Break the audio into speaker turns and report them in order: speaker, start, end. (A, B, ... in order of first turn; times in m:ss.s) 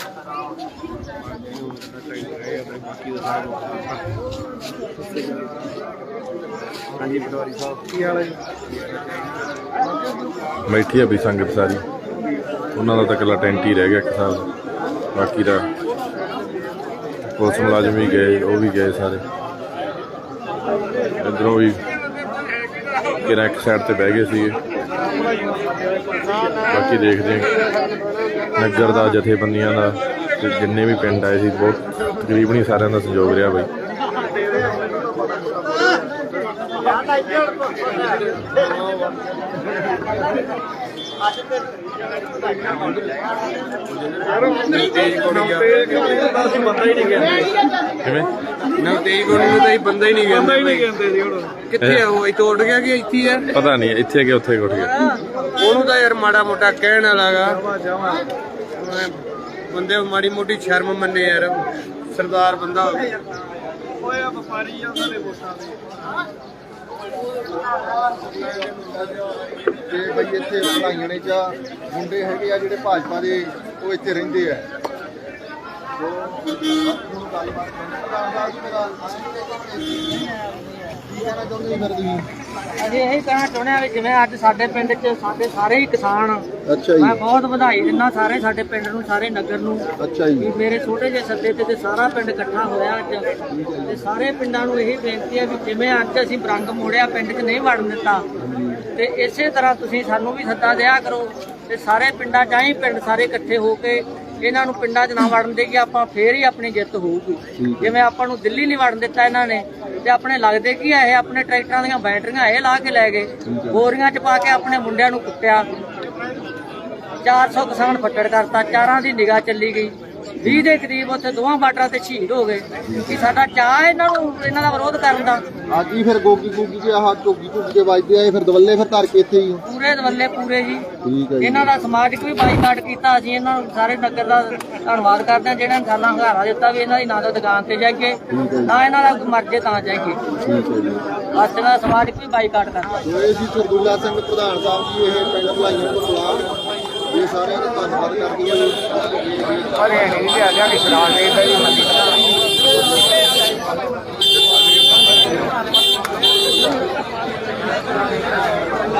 0:07.0-0:08.2 A
0:10.7-0:11.8 B
0:12.8-0:14.5 B
0:15.2-0:15.7 B
0:17.4-0:19.2 B
0:21.2-0:21.8 B
0:23.2-0:24.6 B
0:26.7-0:27.6 B
0:28.6-0:33.7 B
0:44.6-0:47.4 A
0:48.0-0:48.3 B
0:48.8-0:53.5 A
0:51.8-0:52.0 B
0:53.5-0:54.9 B
0:55.6-0:58.2 A
0:58.8-0:59.2 A
0:59.7-1:03.1 A
1:08.2-1:14.6 C
1:16.0-1:22.3 C
1:22.8-1:26.5 D
1:26.7-1:27.2 C
1:27.0-1:29.8 D
1:30.0-1:30.5 C
1:30.4-1:33.3 D
1:33.5-1:34.1 C
1:33.9-1:38.2 D
1:38.4-1:38.9 C
1:39.0-1:55.7 D
1:47.6-1:48.0 C
1:53.4-1:53.9 C
1:57.2-2:05.4 D
2:02.9-2:03.3 C
2:05.7-2:09.6 C
2:09.6-2:10.9 D
2:11.0-2:11.7 C
2:11.4-2:20.2 D
2:18.3-2:18.8 C
2:20.4-2:21.1 C
2:21.4-2:23.0 D
2:23.0-2:26.5 C
2:27.1-2:30.4 C